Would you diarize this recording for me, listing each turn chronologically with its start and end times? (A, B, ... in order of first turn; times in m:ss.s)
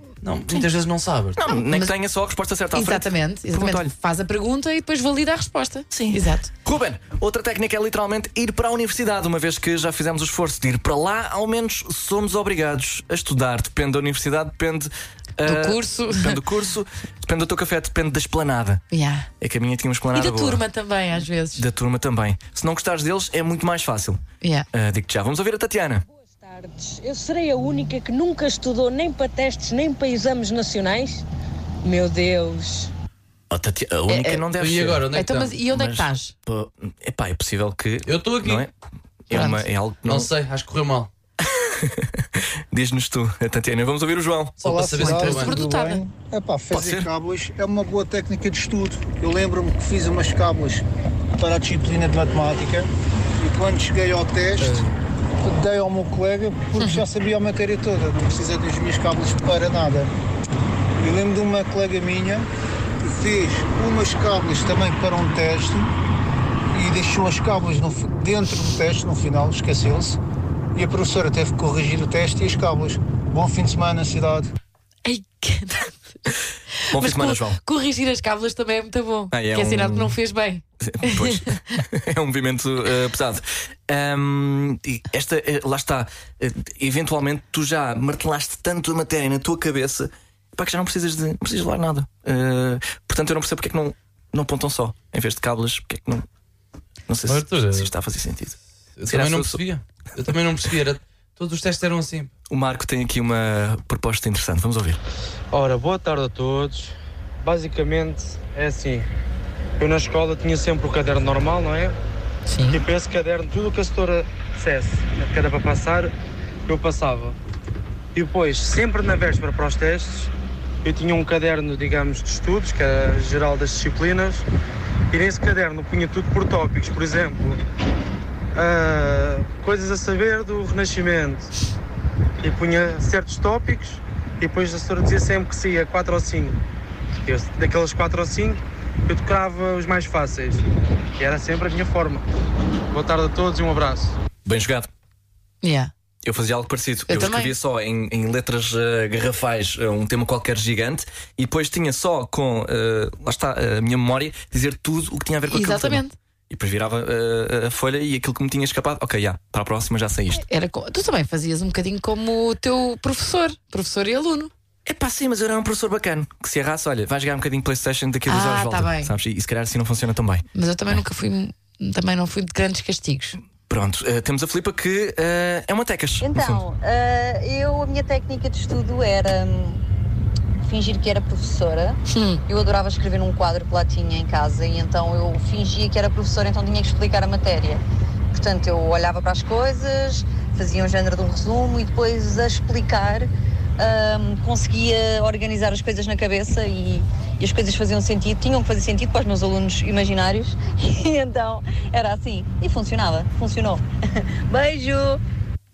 0:00.2-0:01.4 A
0:01.4-0:03.9 B
0:01.5-0:01.9 C
0:02.7-0:06.5 C
0:05.9-0:18.8 B
0:15.4-0:16.4 C
0:18.9-0:19.3 C
0:19.4-0:20.6 B
0:20.1-0:21.6 C
0:21.6-0:24.2 B
0:24.4-0:24.7 C
0:24.7-0:26.0 B
0:26.1-0:31.2 D
0:31.8-0:32.9 D
0:33.5-0:35.1 B
0:34.1-0:34.4 C
0:34.6-0:35.6 A
0:35.1-0:36.3 C
0:35.7-0:38.7 B
0:38.0-0:38.7 A
0:39.3-0:40.3 B
0:39.3-0:39.6 C
0:40.1-0:41.1 A
0:41.6-0:44.9 B
0:44.6-0:45.6 A
0:44.6-0:50.8 E
0:45.0-0:46.0 C
0:46.7-0:47.1 B
0:51.4-0:54.9 E
0:55.4-1:00.1 E
1:01.0-1:02.5 E
1:03.0-1:05.9 E
1:06.7-1:10.2 E
1:10.7-1:14.5 E
1:15.0-1:16.3 C
1:16.9-1:21.8 C
1:16.9-1:17.6 B
1:19.3-1:20.2 B
1:20.8-1:36.2 B
1:37.1-1:39.6 B
1:37.3-1:37.9 A
1:39.0-1:42.3 A
1:42.5-1:45.0 B
1:45.5-1:49.1 F
1:49.8-1:52.0 F
1:52.5-1:52.8 C
1:52.7-1:56.1 F
1:56.7-1:57.4 F
1:58.1-2:00.3 F
2:00.8-2:04.4 F
2:05.1-2:07.6 F
2:08.6-2:11.5 F
2:12.4-2:16.6 F
2:17.2-2:20.6 F
2:21.2-2:22.3 F
2:22.9-2:24.2 F
2:24.4-2:24.9 B
2:25.6-2:25.9 C
2:26.2-2:40.4 B
2:27.1-2:27.5 C
2:35.5-2:36.1 C
2:40.4-2:44.5 C
2:44.8-2:50.5 B
2:48.3-2:49.1 C
2:50.6-2:53.4 C
2:53.7-2:56.6 B
2:56.2-2:59.8 G
3:00.6-3:23.8 G
3:02.1-3:02.4 C
3:24.5-3:25.2 G